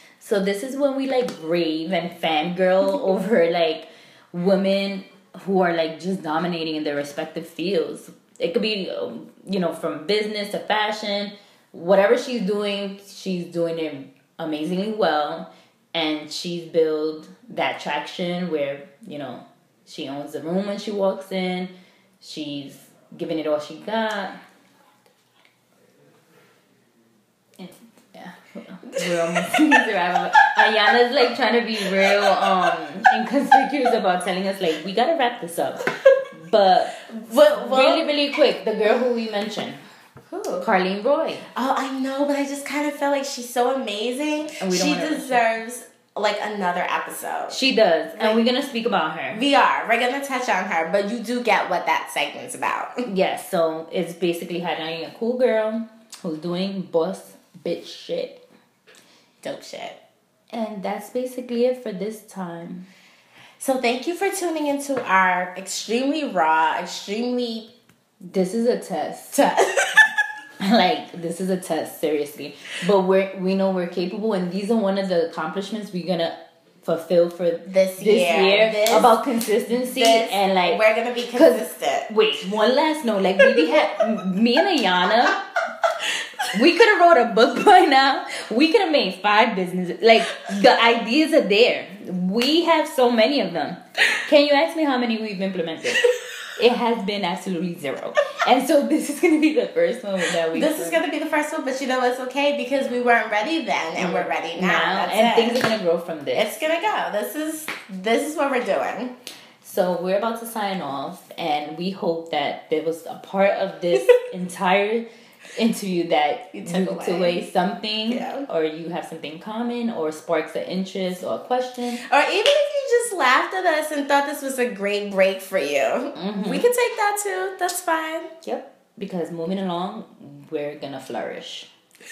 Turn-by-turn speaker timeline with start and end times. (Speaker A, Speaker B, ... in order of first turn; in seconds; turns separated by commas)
Speaker A: 0.2-24.4, Speaker A: 27.6-37.0, Speaker B: 29.0-29.4, Speaker B: 37.0-38.1, Speaker A: 37.5-39.8, Speaker B: 40.3-40.7, Speaker A: 40.6-41.5, Speaker B: 41.5-47.6, Speaker A: 44.6-45.4, Speaker A: 47.5-49.4, Speaker B: 48.2-48.4, Speaker B: 49.3-53.0, Speaker A: 53.0-58.4, Speaker B: 59.4-60.0, Speaker A: 60.5-62.9, Speaker B: 63.6-67.7, Speaker A: 68.3-69.4, Speaker B: 69.3-70.0, Speaker A: 70.6-80.8, Speaker B: 77.7-79.2, Speaker B: 79.7-82.1, Speaker A: 81.4-85.4, Speaker A: 86.5-101.0, Speaker B: 100.5-105.6, Speaker A: 104.0-106.5, Speaker B: 106.3-109.1, Speaker A: 109.6-122.0, Speaker B: 116.5-117.4, Speaker B: 118.1-118.5, Speaker B: 122.0-128.3, Speaker A: 126.1-126.7, Speaker A: 128.4-131.7